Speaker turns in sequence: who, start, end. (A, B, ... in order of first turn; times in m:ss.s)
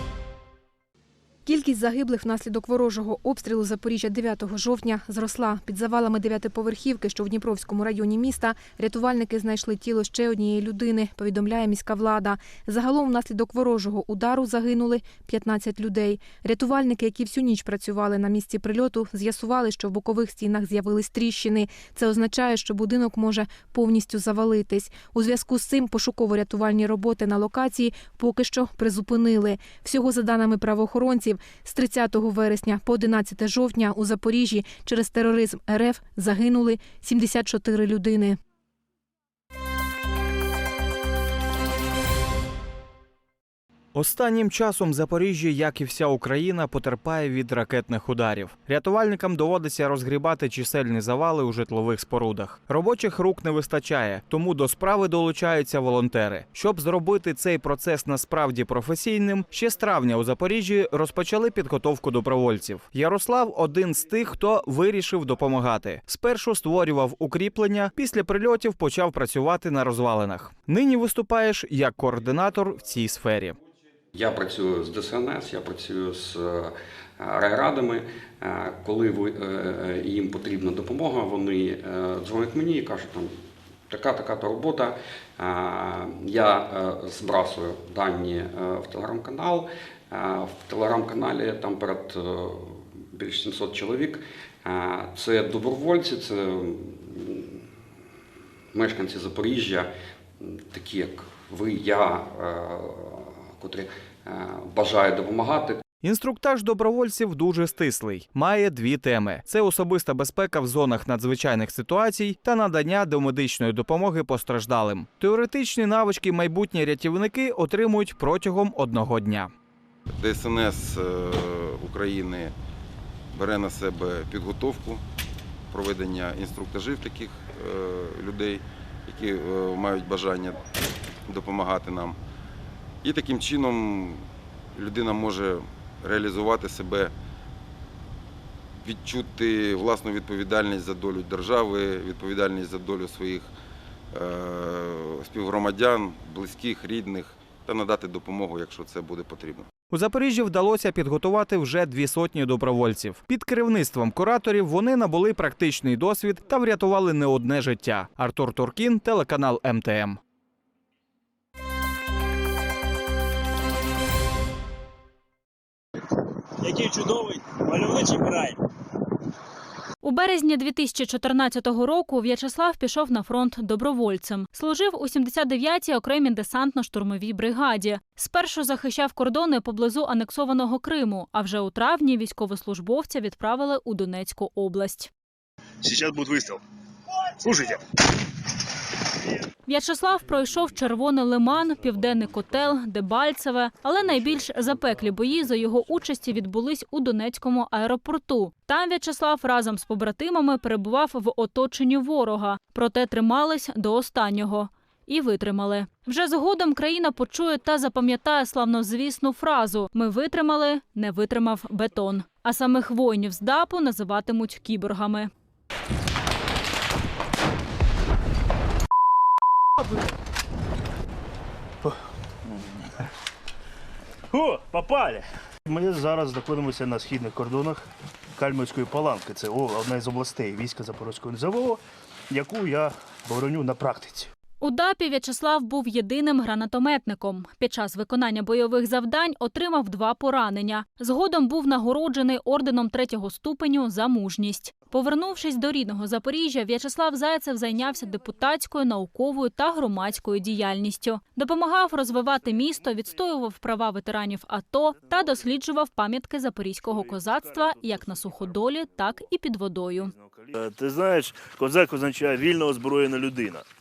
0:01.4-0:38.4 A
0:43.9-1:13.6 B
1:14.1-1:23.4 C
1:23.9-1:37.6 C
1:38.7-1:45.8 C
1:46.0-1:59.5 B
2:00.2-2:02.5 D
2:03.3-2:05.0 D
2:05.7-2:10.6 D
2:11.3-2:12.2 D
2:13.0-2:14.2 D
2:14.8-2:17.1 D
2:18.8-2:23.5 D
2:24.1-2:29.6 D
2:29.9-2:40.2 B
2:50.0-3:05.1 E
3:05.8-3:06.6 F
3:07.4-3:07.8 F
3:09.6-3:35.3 E
3:44.3-3:54.3 F
3:54.6-4:20.1 E
4:15.1-4:15.4 F
4:16.8-4:18.8 F
4:20.0-4:23.6 F